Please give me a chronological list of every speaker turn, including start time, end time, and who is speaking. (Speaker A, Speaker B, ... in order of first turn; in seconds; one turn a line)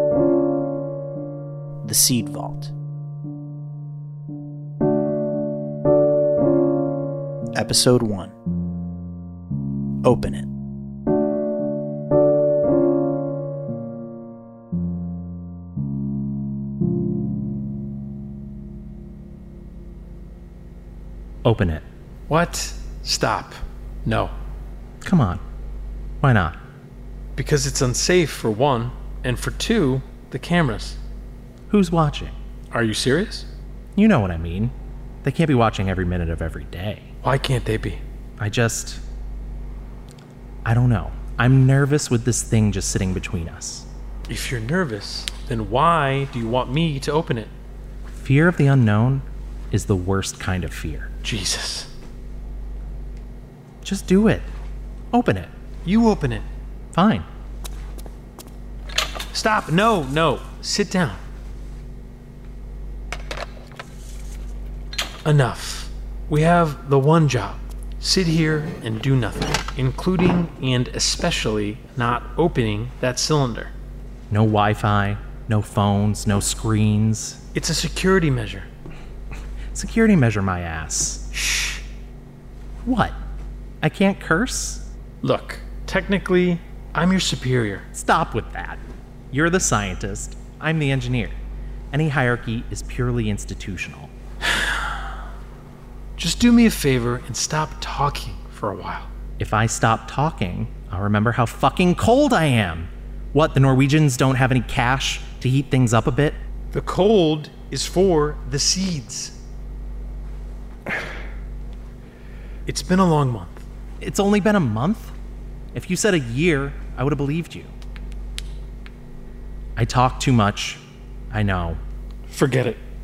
Speaker A: 1.8-2.7
Speaker A: 7.5-8.3
Speaker A: 10.0-10.5
Speaker B: 21.4-21.8
Speaker C: 22.3-24.3
Speaker B: 25.0-25.4
Speaker B: 26.2-26.6
Speaker C: 27.4-31.0
Speaker B: 31.7-32.4
Speaker C: 32.7-33.5
Speaker B: 34.0-34.7
Speaker B: 35.2-37.1
Speaker C: 37.2-38.0
Speaker B: 38.4-39.0
Speaker B: 40.6-43.9
Speaker C: 44.3-47.5
Speaker B: 48.1-51.1
Speaker C: 51.2-51.9
Speaker B: 53.8-54.5
Speaker B: 55.1-55.5
Speaker C: 55.8-56.5
Speaker B: 56.9-57.3
Speaker C: 59.3-61.2
Speaker C: 65.2-73.7
Speaker B: 74.3-77.4
Speaker C: 77.5-78.7
Speaker B: 79.7-81.2
Speaker B: 82.8-83.2
Speaker B: 83.8-84.8
Speaker C: 85.2-87.8
Speaker B: 87.9-91.4
Speaker B: 91.9-94.1
Speaker C: 94.5-94.8
Speaker C: 96.2-99.1
Speaker B: 99.4-106.4
Speaker C: 106.7-109.3
Speaker C: 112.7-113.6
Speaker B: 114.0-115.1
Speaker B: 115.7-117.7
Speaker B: 119.8-121.8
Speaker C: 122.3-122.8